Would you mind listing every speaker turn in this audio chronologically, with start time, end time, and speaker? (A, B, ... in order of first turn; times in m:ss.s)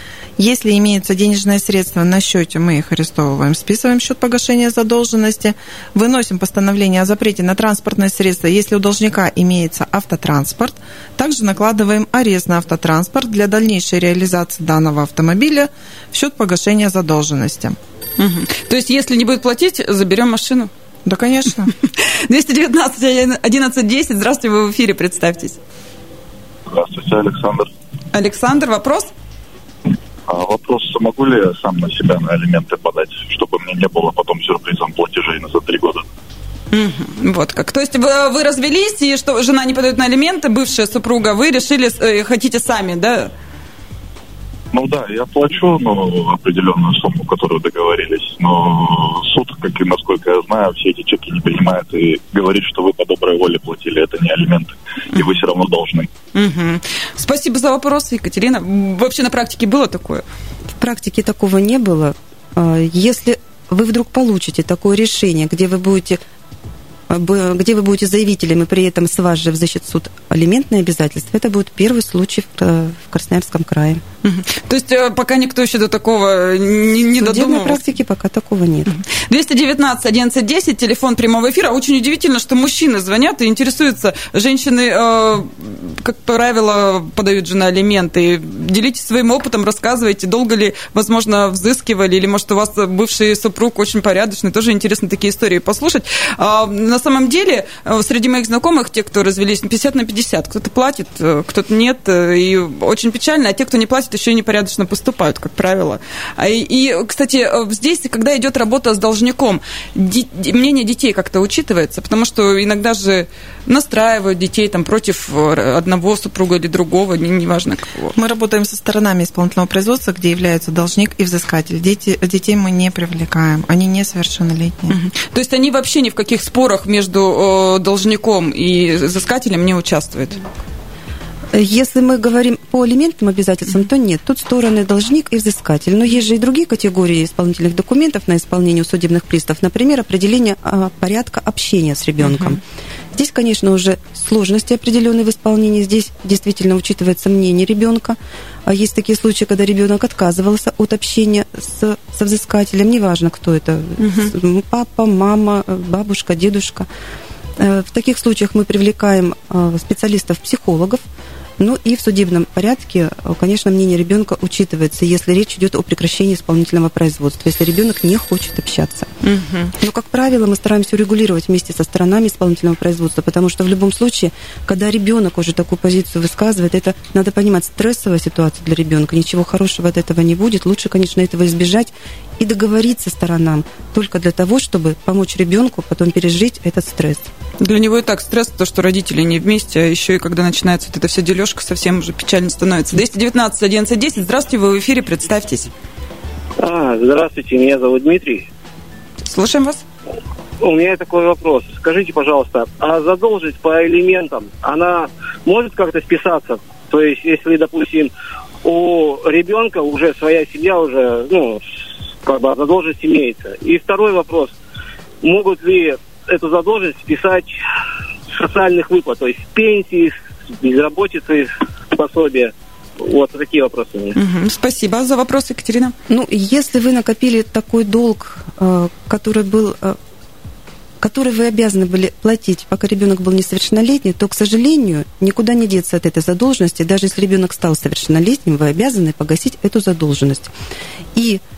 0:00.4-0:17.8 A
0:18.2-0:20.7 B
0:21.1-0:21.7 A
0:21.9-0:25.6 B
0:26.7-0:27.7 C
0:28.1-0:29.1 B
0:30.3-0:36.0 C
0:36.7-0:43.3 B
0:44.7-0:56.1 C
0:56.3-1:00.2 B
1:00.8-1:06.2 D
1:07.1-1:14.0 D
1:14.2-1:17.8 B
1:17.2-1:18.9 D
1:18.8-1:58.2 B
1:58.2-2:05.0 A
2:04.9-2:10.4 B
2:11.5-2:22.6 D
2:22.2-2:22.6 B
2:23.1-2:36.9 D
2:34.0-2:34.3 B
2:37.6-2:41.0 D
2:41.6-2:49.1 D
2:49.2-2:49.7 B
2:49.8-3:07.3 D
3:07.6-3:15.7 B
3:16.6-3:18.5 E
3:19.2-3:19.8 B
3:20.6-3:28.1 E
3:28.6-3:31.6 E
3:32.2-3:34.5 E
3:35.2-3:37.5 E
3:38.3-3:44.2 E
3:44.2-3:45.9 B
3:46.1-3:50.0 D
3:51.0-4:00.5 D
4:01.2-4:01.4 D